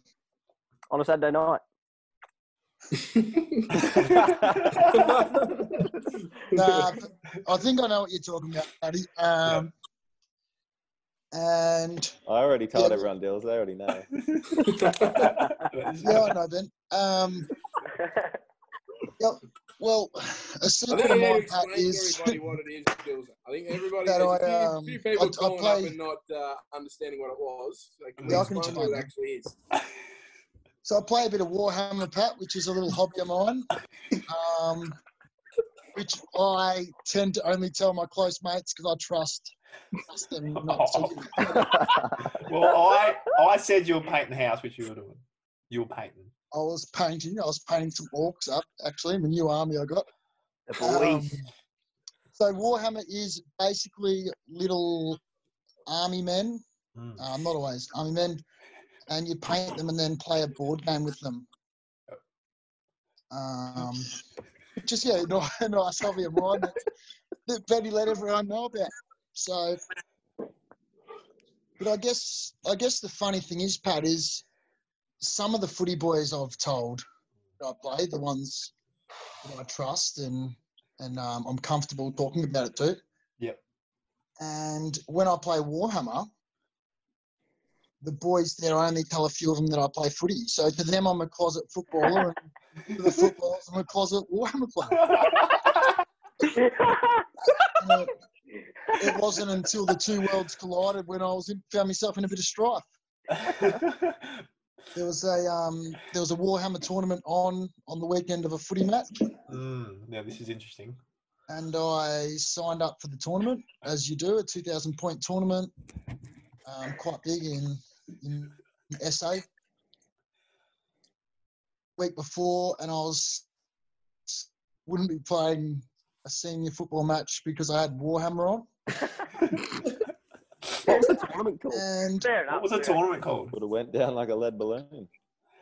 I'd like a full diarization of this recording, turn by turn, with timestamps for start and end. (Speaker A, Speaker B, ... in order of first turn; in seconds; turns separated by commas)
Speaker A: 0.9-1.6, Speaker B: 3.0-3.7, Speaker C: 4.2-4.8, Speaker B: 5.0-5.8, Speaker D: 6.5-9.7, Speaker B: 6.5-6.9, Speaker D: 11.3-12.2, Speaker E: 12.3-14.1, Speaker D: 12.7-13.1, Speaker B: 14.6-15.3, Speaker C: 15.1-16.4, Speaker D: 16.0-17.5, Speaker F: 18.1-18.3, Speaker D: 19.2-22.5, Speaker B: 20.9-29.6, Speaker D: 24.0-26.0, Speaker C: 28.2-28.5, Speaker D: 28.2-29.1, Speaker D: 30.8-33.7, Speaker D: 34.3-35.0, Speaker D: 36.0-39.5, Speaker D: 40.1-41.9, Speaker C: 40.6-46.3, Speaker D: 46.5-50.1, Speaker A: 50.7-51.3, Speaker D: 50.8-51.5, Speaker D: 52.3-55.2, Speaker D: 55.9-56.6, Speaker C: 57.0-57.2, Speaker D: 57.2-58.4, Speaker D: 59.1-61.5, Speaker D: 63.3-64.2, Speaker D: 64.8-66.8, Speaker D: 67.5-69.8, Speaker D: 71.8-74.4, Speaker D: 75.2-77.0, Speaker D: 77.6-78.7, Speaker D: 79.4-83.0, Speaker D: 84.4-86.3, Speaker D: 88.0-95.3, Speaker C: 95.0-95.9, Speaker F: 96.5-97.3, Speaker D: 97.8-98.1, Speaker D: 99.0-102.9, Speaker C: 103.3-104.4, Speaker D: 105.0-109.2, Speaker C: 109.5-111.0, Speaker D: 111.5-115.7, Speaker D: 116.7-119.5, Speaker D: 122.0-123.5, Speaker D: 124.3-128.7, Speaker A: 130.8-131.8, Speaker D: 131.7-132.3, Speaker F: 132.2-133.0, Speaker C: 132.5-133.5, Speaker E: 133.5-135.1